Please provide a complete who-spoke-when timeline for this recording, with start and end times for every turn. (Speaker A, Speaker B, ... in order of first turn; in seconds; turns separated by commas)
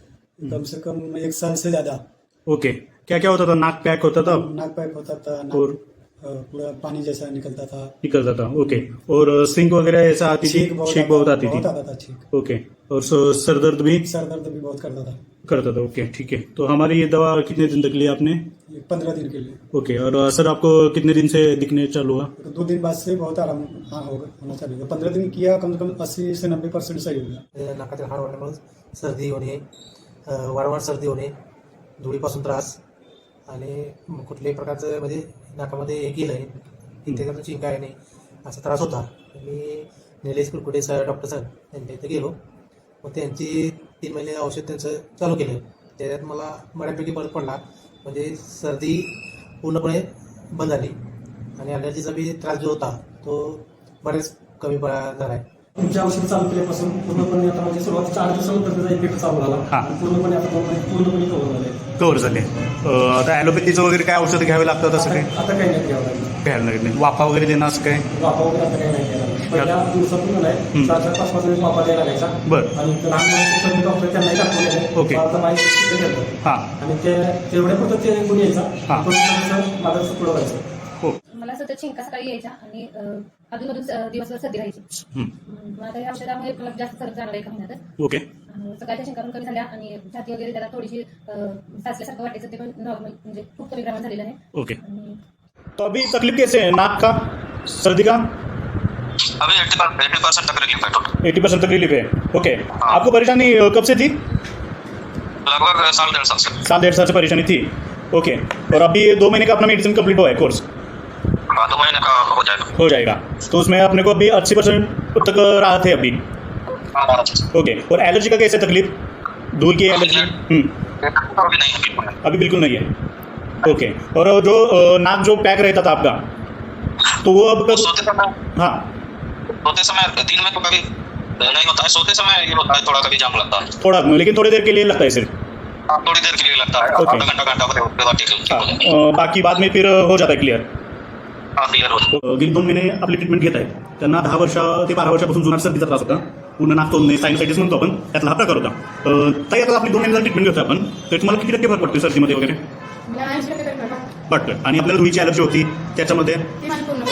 Speaker A: 0.4-2.0, Speaker B: 2.5-4.5, Speaker A: 4.2-7.9, Speaker B: 8.0-11.7, Speaker A: 10.4-12.3, Speaker B: 12.3-14.1, Speaker A: 14.0-15.2, Speaker B: 15.4-18.5, Speaker A: 18.7-19.6, Speaker B: 19.7-22.3, Speaker A: 22.4-27.4, Speaker C: 27.5-29.6, Speaker C: 30.3-31.4, Speaker C: 32.0-32.8, Speaker C: 33.5-42.4, Speaker C: 43.0-51.0, Speaker C: 51.6-55.5, Speaker D: 55.8-61.8, Speaker B: 62.0-65.3, Speaker D: 65.0-66.3, Speaker B: 66.4-68.1, Speaker D: 68.1-80.6, Speaker B: 69.5-69.8, Speaker B: 72.5-72.8, Speaker B: 75.0-75.2, Speaker B: 76.4-76.7, Speaker E: 81.3-84.9, Speaker E: 85.5-87.8, Speaker B: 88.0-88.3, Speaker E: 88.5-95.2, Speaker B: 94.5-94.8, Speaker B: 95.8-98.3, Speaker F: 99.4-101.1, Speaker B: 101.2-104.2, Speaker F: 105.5-106.6, Speaker B: 106.6-110.7, Speaker F: 111.5-112.7, Speaker B: 112.8-116.2, Speaker F: 116.9-117.5, Speaker B: 117.5-120.7, Speaker F: 120.0-120.3, Speaker F: 121.0-122.2, Speaker B: 122.2-122.9, Speaker B: 123.6-126.2, Speaker B: 127.2-127.9, Speaker F: 127.7-128.3, Speaker B: 128.5-128.9, Speaker F: 129.5-130.9, Speaker F: 131.4-133.7, Speaker B: 133.8-135.3, Speaker F: 135.9-138.7, Speaker B: 136.9-137.3, Speaker B: 138.5-140.7, Speaker F: 141.6-142.1, Speaker B: 142.1-152.6, Speaker B: 154.3-156.6